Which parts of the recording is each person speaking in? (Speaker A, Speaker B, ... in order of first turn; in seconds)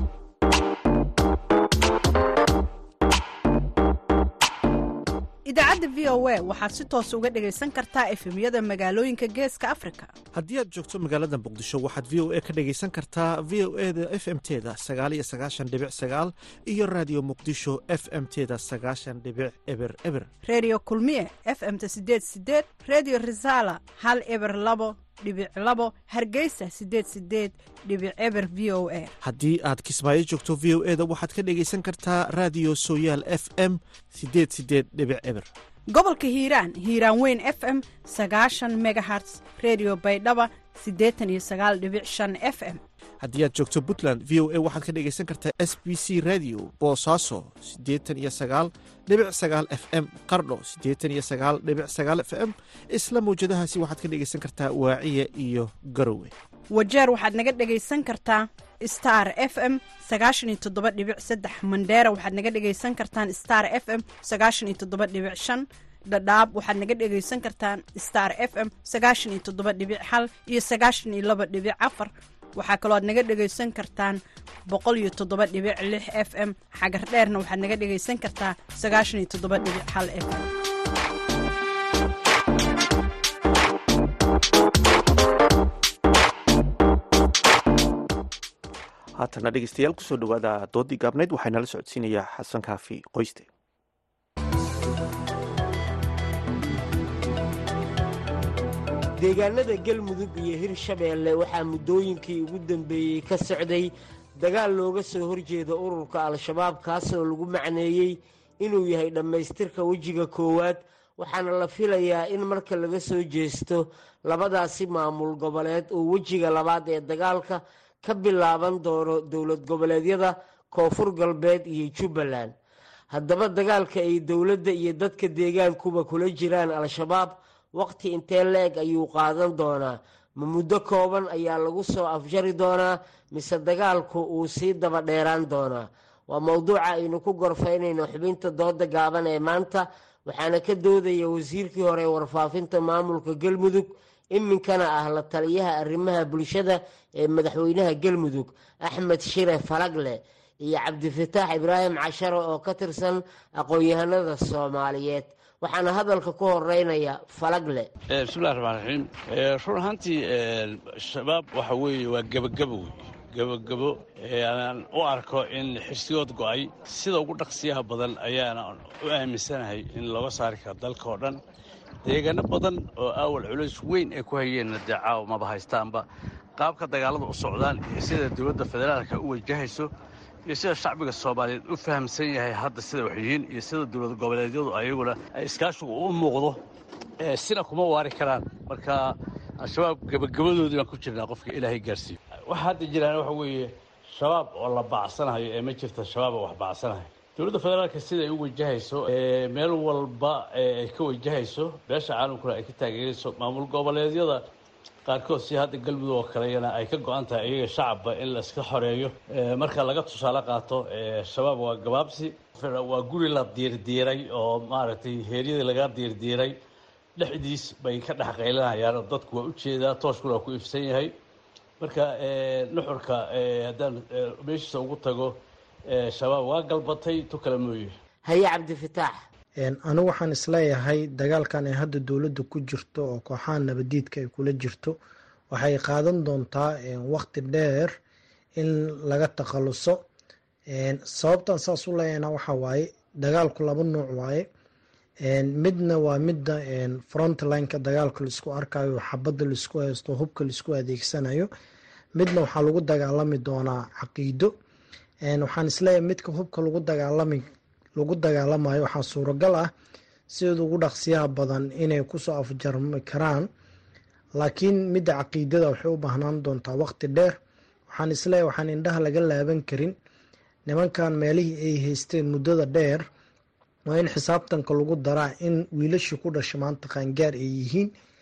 Speaker A: 5.5-10.1, 20.4-29.1, 35.9-42.8, 56.7-80.5
Speaker B: 10.3-20.3, 29.2-35.5, 43.2-56.3, 89.2-93.5
Speaker C: 99.2-122.5, 123.1-157.9, 228.3-229.1
Speaker D: 158.1-171.4, 172.0-176.0, 176.6-179.9, 180.5-186.6, 187.2-189.1, 189.6-204.4, 205.1-216.5, 217.2-221.1, 221.8-225.3, 225.9-227.9
Speaker E: 229.6-234.9, 235.5-237.9, 238.6-240.0, 240.7-244.5, 245.2-251.5, 252.2-254.5, 255.2-257.4, 258.0-259.7, 260.3-263.4, 264.4-267.4, 267.9-269.9, 270.7-273.0, 273.9-277.9